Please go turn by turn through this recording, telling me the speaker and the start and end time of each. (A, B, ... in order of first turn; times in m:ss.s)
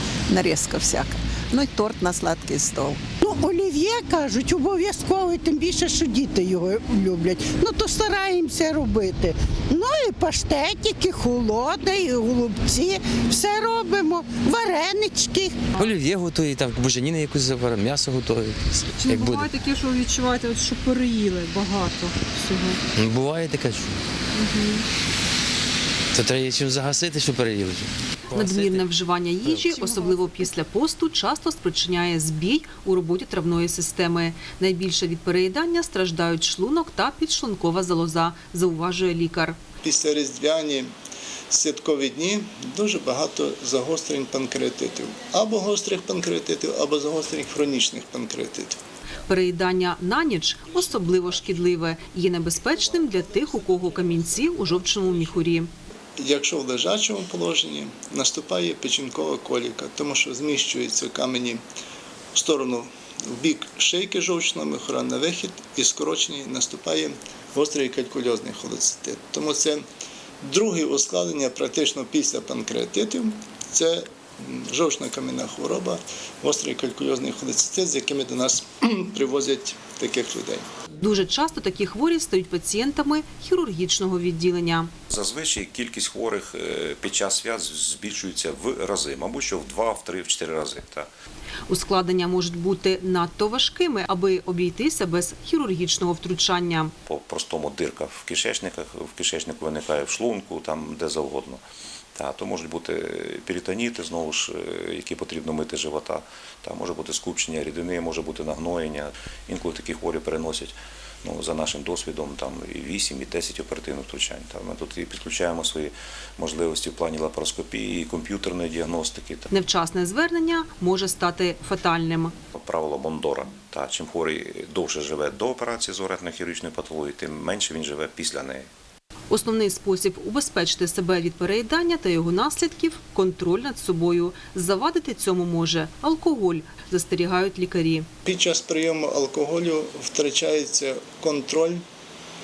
0:00.3-0:03.0 A
0:03.2-0:15.6 B
0:15.8-0:19.5 C
0:19.0-0:21.9 D
0:23.0-0:24.0 C
0:26.1-0:28.8 C
0:28.3-0:39.6 D
0:39.8-0:40.9 E
0:41.5-0:48.8 E
0:49.2-0:55.7 D
0:56.2-1:01.6 E
1:02.3-1:09.8 E
1:10.4-1:20.6 E
1:21.0-1:24.9 D
1:25.1-1:31.1 F
1:31.7-1:36.9 D
1:37.0-1:41.6 F
1:42.1-1:59.5 F
1:59.5-2:02.3 D
2:02.5-2:08.7 F
2:09.3-2:18.1 D
2:18.2-2:21.8 E